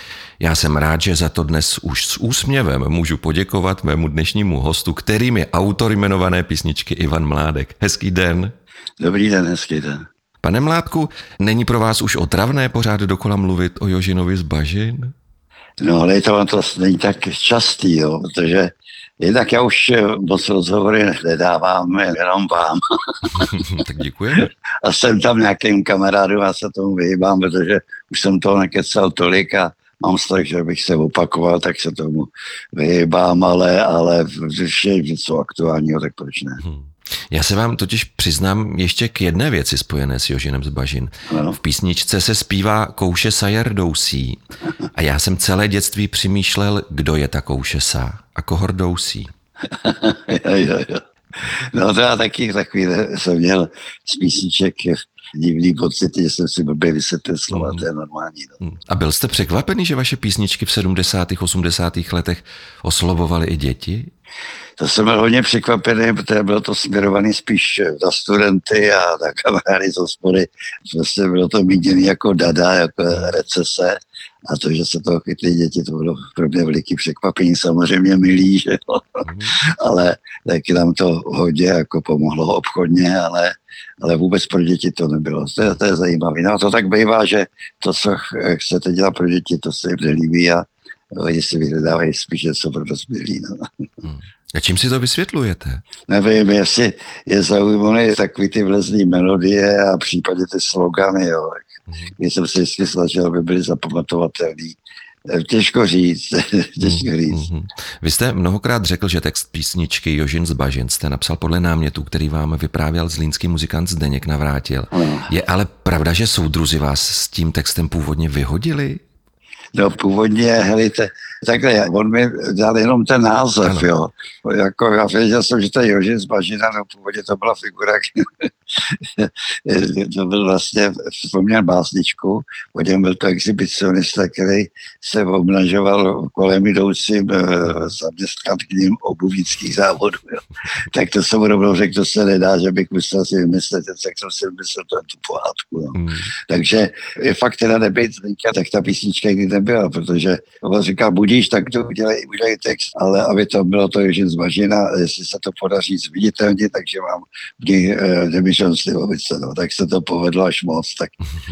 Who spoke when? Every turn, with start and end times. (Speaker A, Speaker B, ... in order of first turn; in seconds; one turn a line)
Speaker A: 0.4-8.5
Speaker B: 9.0-10.1
Speaker A: 10.4-15.1
Speaker B: 15.8-23.7
Speaker A: 23.3-24.5
Speaker B: 24.4-36.6
Speaker A: 36.6-44.4
Speaker B: 41.3-41.6
Speaker A: 44.9-49.3
Speaker B: 49.7-58.6
Speaker A: 57.5-57.9
Speaker A: 58.6-64.1
Speaker B: 64.8-93.6
Speaker A: 79.2-79.5
Speaker A: 94.0-95.8
Speaker B: 96.1-101.6
Speaker B: 102.2-107.5
Speaker A: 106.8-119.0
Speaker B: 114.9-115.3
Speaker B: 119.7-161.1
Speaker A: 123.6-123.9
Speaker A: 145.9-146.3